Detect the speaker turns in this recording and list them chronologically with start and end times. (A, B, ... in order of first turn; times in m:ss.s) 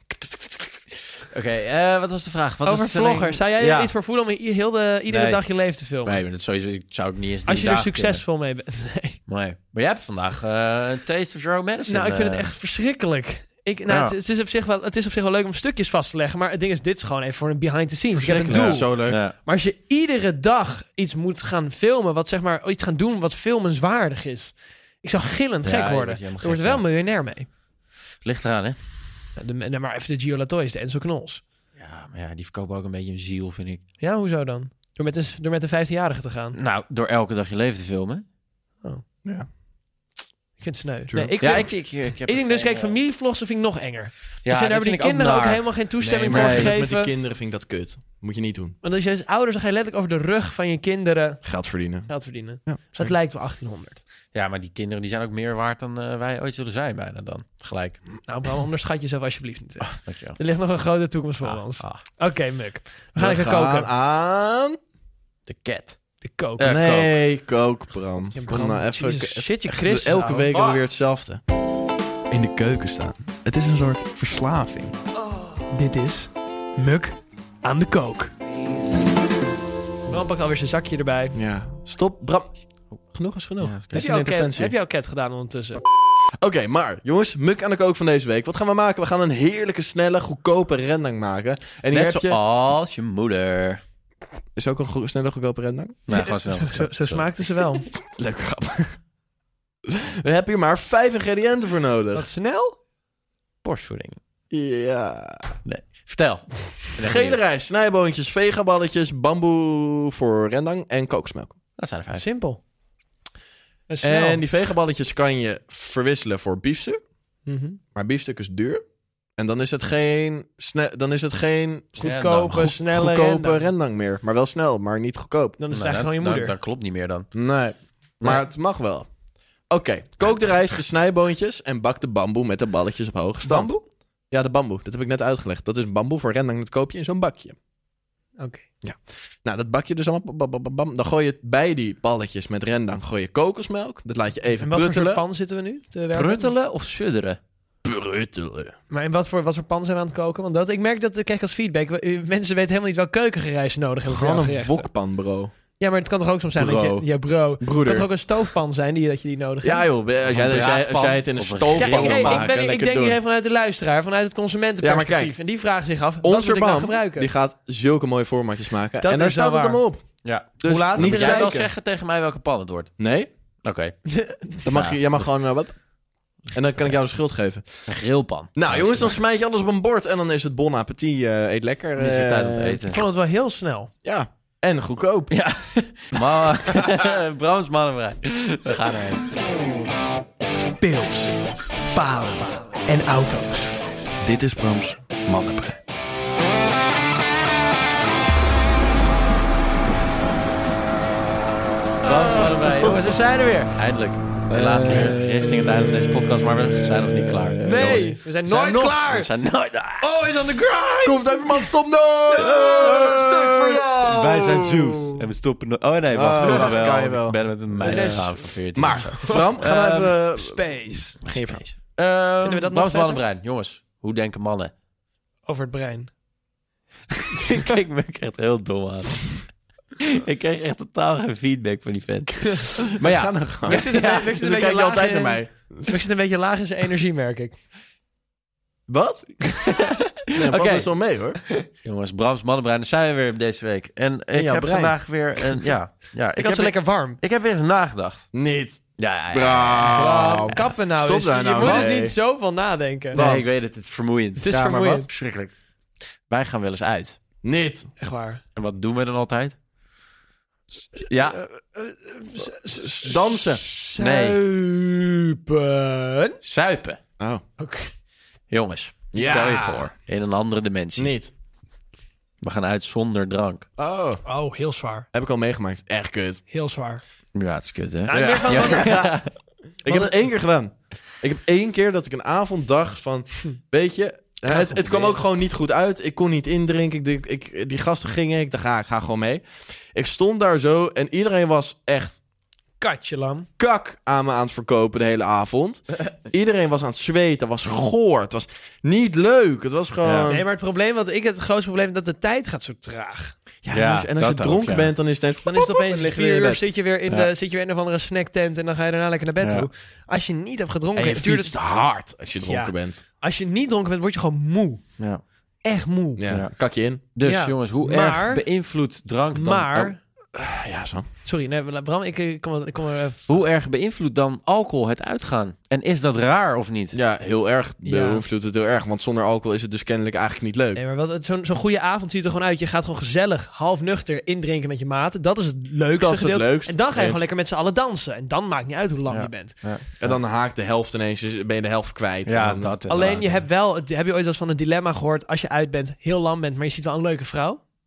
0:01.2-0:03.9 A
0:02.6-0:06.2 B
0:05.1-0:05.4 A
0:06.0-0:08.2 A
0:07.5-0:09.2 B
0:09.3-0:12.5 A
0:11.9-0:27.5 B
0:13.9-0:14.2 A
0:18.1-0:19.2 C
0:18.4-0:19.4 A
0:25.6-0:26.8 A
0:28.2-0:28.8 A
0:29.4-0:31.4 B
0:31.8-0:33.8 A
0:34.0-0:36.6 B
0:36.5-0:38.2 A
0:40.6-0:47.1 B
0:41.1-0:41.7 C
0:41.4-0:43.0 A
0:44.4-0:46.8 A
0:46.0-0:48.8 C
0:48.8-0:51.4 B
0:51.4-0:52.1 C
0:52.1-0:54.0 B
0:52.6-0:53.1 C
0:54.3-0:58.0 A
0:58.3-1:03.9 B
0:59.8-1:00.4 A
1:01.4-1:02.0 A
1:03.2-1:04.8 C
1:05.5-1:06.0 A
1:06.2-1:07.0 B
1:06.6-1:07.1 A
1:06.6-1:11.4 C
1:08.3-1:10.5 B
1:10.5-1:10.8 A
1:12.3-1:14.9 C
1:15.7-1:18.3 B
1:20.1-1:21.4 B
1:21.3-1:22.5 C
1:23.1-1:24.7 C
1:23.6-1:24.0 A
1:23.9-1:25.8 B
1:26.4-1:32.4 C
1:31.9-1:33.8 A
1:34.6-1:36.1 C
1:36.1-1:37.3 A
1:36.1-1:37.9 B
1:38.2-1:38.9 C
1:39.9-1:42.3 C
1:42.1-1:42.8 B
1:43.6-1:44.2 A
1:44.5-1:45.6 C
1:45.6-1:47.4 A
1:47.0-1:51.6 C
1:51.8-1:52.2 A
1:52.1-1:52.6 B
1:53.9-1:54.4 B
1:54.0-1:57.0 C
1:57.5-1:57.8 B
1:57.9-1:58.8 C
1:59.4-2:05.6 C
2:02.0-2:03.6 B
2:02.0-2:02.7 A
2:05.6-2:06.5 B
2:05.7-2:07.3 A
2:07.3-2:09.1 C
2:09.7-2:17.6 C
2:13.5-2:13.8 B
2:18.4-2:18.6 B
2:18.8-2:25.2 C
2:24.6-2:26.5 B
2:26.1-2:27.4 A
2:27.8-2:28.7 C
2:28.9-2:34.9 B
2:34.1-2:35.5 C
2:35.8-2:39.9 B
2:36.6-2:38.1 C
2:39.6-2:43.2 C
2:40.3-2:42.5 A
2:41.8-2:47.3 B
2:44.8-2:45.4 C
2:46.2-2:51.7 C
2:49.0-2:49.8 B
2:50.2-2:52.9 A
2:50.6-2:51.6 B
2:53.0-2:53.3 C
2:53.6-2:54.0 A
2:54.1-2:54.6 B
2:54.6-2:55.0 A
2:54.6-2:55.8 C
2:56.5-2:57.9 C
2:57.9-2:59.2 A
2:58.6-3:02.8 C
3:02.0-3:03.0 A
3:02.9-3:03.9 B
3:04.0-3:05.3 C
3:05.3-3:09.4 A
3:06.2-3:07.2 C
3:10.8-3:11.4 B
3:11.9-3:13.8 B
3:14.2-3:15.8 C
3:22.0-3:30.6 A
3:24.5-3:28.2 C
3:27.6-3:29.3 B
3:30.0-3:31.6 B
3:31.0-3:35.2 C
3:32.4-3:33.8 B
3:32.4-3:40.2 A
3:36.1-3:41.6 C
3:36.4-3:36.7 B
3:37.8-3:38.5 B
3:39.2-3:41.2 B
3:41.2-3:44.7 A
3:42.4-3:43.2 B
3:45.5-3:46.1 B
3:47.2-3:49.5 A
3:50.0-3:54.3 A
3:53.0-3:56.0 C
3:53.7-3:57.5 B
3:58.9-3:59.3 C
3:59.4-4:00.9 A
4:00.3-4:01.4 C
4:01.8-4:08.3 A
4:04.3-4:05.0 C
4:06.4-4:07.2 B
4:08.3-4:12.2 C
4:09.0-4:10.6 A
4:09.9-4:13.2 B
4:11.6-4:12.0 A
4:13.1-4:15.5 A
4:13.1-4:13.6 C
4:14.4-4:15.1 B
4:14.5-4:15.0 C
4:16.3-4:17.2 A
4:17.4-4:17.9 C
4:18.0-4:18.4 B
4:18.6-4:19.6 A
4:21.0-4:26.4 B
4:21.1-4:21.4 A
4:22.6-4:23.6 C
4:24.0-4:24.4 A
4:26.4-4:27.0 A
4:27.6-4:27.9 B
4:28.5-4:31.1 A
4:29.1-4:29.9 C
4:31.0-4:31.3 C
4:32.4-4:33.7 A
4:33.8-4:34.2 C
4:34.2-4:35.1 B
4:35.1-4:36.4 C
4:36.5-4:37.0 B
4:37.4-4:39.3 A
4:38.1-4:39.1 B
4:38.1-4:39.2 C
4:39.8-4:52.2 C
4:39.9-4:40.2 B
4:44.7-4:45.1 A
4:52.8-4:53.5 B
4:53.6-5:00.4 C
5:00.0-5:00.3 A
5:00.3-5:03.4 B
5:03.6-5:06.7 C
5:03.7-5:04.9 A
5:05.4-5:11.5 B
5:09.4-5:09.7 A
5:11.0-5:13.0 C
5:12.4-5:14.8 B
5:15.6-5:16.2 B
5:16.2-5:17.0 C
5:17.1-5:19.9 A
5:17.2-5:18.5 B
5:19.3-5:20.0 B
5:20.3-5:21.1 C
5:21.2-5:23.4 B
5:23.3-5:27.0 A
5:26.9-5:30.8 C
5:27.8-5:28.2 B
5:30.8-5:39.6 B
5:36.0-5:37.2 C
5:39.1-5:40.2 A
5:40.0-5:43.2 C
5:42.3-5:43.4 A
5:42.9-5:47.6 B